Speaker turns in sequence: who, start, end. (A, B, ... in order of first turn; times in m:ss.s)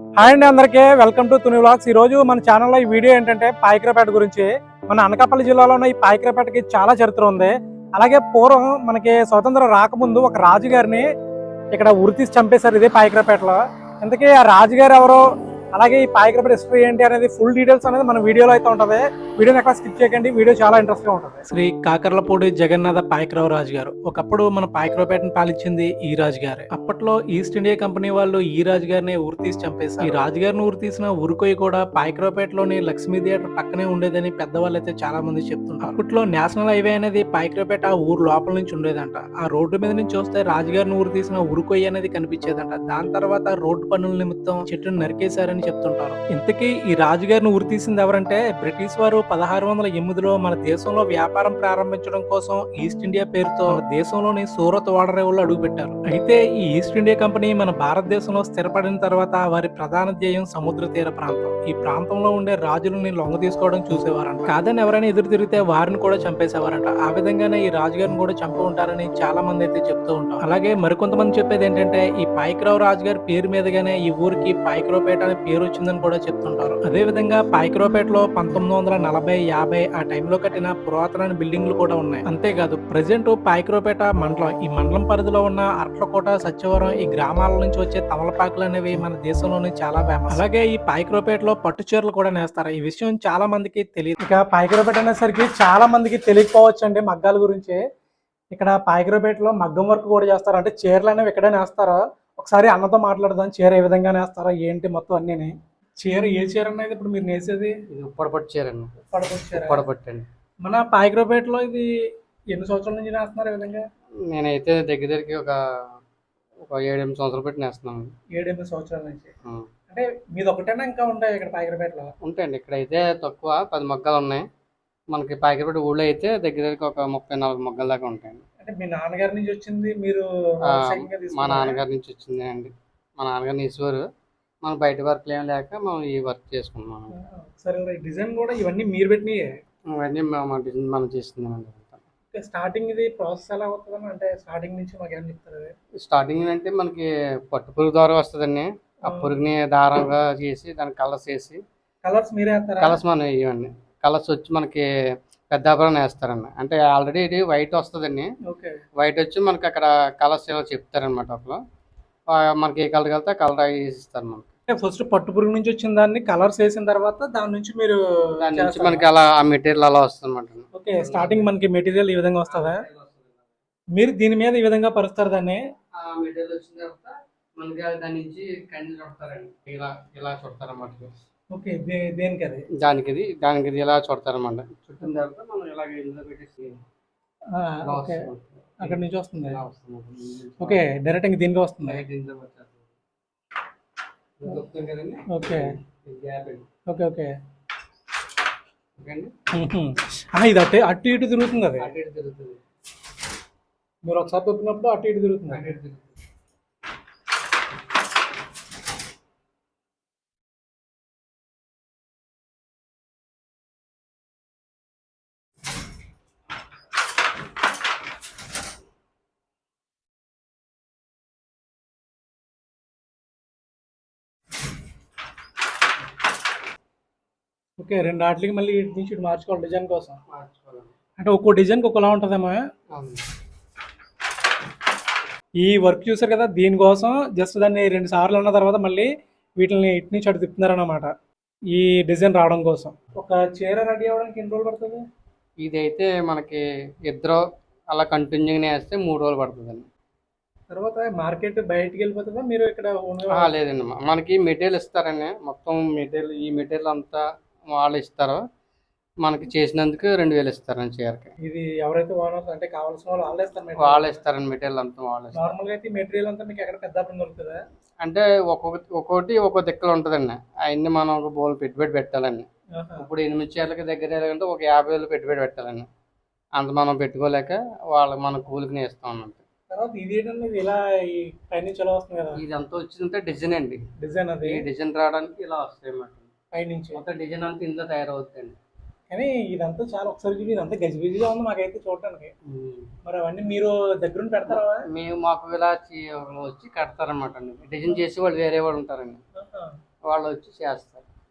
0:00.2-0:11.0 A
0:11.7-0:15.2 A
0:15.7-0:21.4 A
0:21.5-1:34.2 B
1:34.3-1:37.8 A
1:38.5-1:47.7 A
1:47.9-1:48.9 C
1:49.1-1:49.8 A
1:49.5-1:50.3 C
1:50.6-1:51.9 A
1:52.5-1:53.8 A
1:54.2-1:56.0 C
1:56.6-1:58.1 C
1:58.3-1:59.3 A
1:59.9-2:02.1 A
2:02.2-2:04.4 C
2:05.1-2:08.4 C
2:08.6-2:11.8 A
2:10.7-2:14.0 C
2:14.6-2:17.1 C
2:17.1-2:19.4 A
2:20.0-2:22.0 C
2:22.3-2:25.7 A
2:26.0-2:31.6 C
2:29.1-2:29.4 A
2:32.0-2:33.0 A
2:32.8-2:34.8 C
2:35.5-2:38.3 C
2:38.5-2:38.8 A
2:39.0-2:41.6 C
2:42.3-2:44.5 C
2:44.7-2:49.0 A
2:48.4-2:51.5 C
2:50.7-2:52.8 A
2:52.5-2:53.5 C
2:54.0-2:55.6 A
2:56.0-3:01.1 C
3:01.5-3:02.6 A
3:02.8-3:06.8 C
3:07.5-3:08.2 A
3:07.8-3:10.8 C
3:08.8-3:09.6 A
3:10.6-3:12.0 A
3:11.8-3:12.9 C
3:14.4-3:16.6 C
3:15.3-3:15.7 A
3:16.9-3:17.3 A
3:19.0-3:19.3 C
3:19.5-3:21.9 A
3:21.8-3:22.6 C
3:24.0-3:25.7 A
3:25.5-3:26.2 C
3:47.8-3:50.2 A
3:50.3-3:50.9 C
3:51.2-3:52.6 A
3:52.9-3:53.2 C
3:55.6-3:59.1 A
3:59.6-4:01.1 A
4:01.7-4:05.0 A
4:05.6-4:09.9 C
4:10.7-4:13.5 A
4:13.3-4:18.4 C
4:19.2-4:21.3 C
4:21.4-4:24.2 A
4:23.8-4:25.5 C
4:25.3-4:27.6 A
4:28.0-4:35.9 C
4:32.8-4:33.1 A
4:36.6-4:39.4 C
4:39.7-4:42.4 A
4:42.3-4:43.8 C
4:44.0-4:44.7 A
4:44.4-4:46.3 C
4:46.5-4:47.0 A
4:46.9-4:48.6 C
4:49.1-4:52.3 A
4:52.5-4:52.9 C
4:53.0-4:54.8 A
4:54.5-4:59.2 C
4:59.4-4:59.7 A
5:00.1-5:01.0 C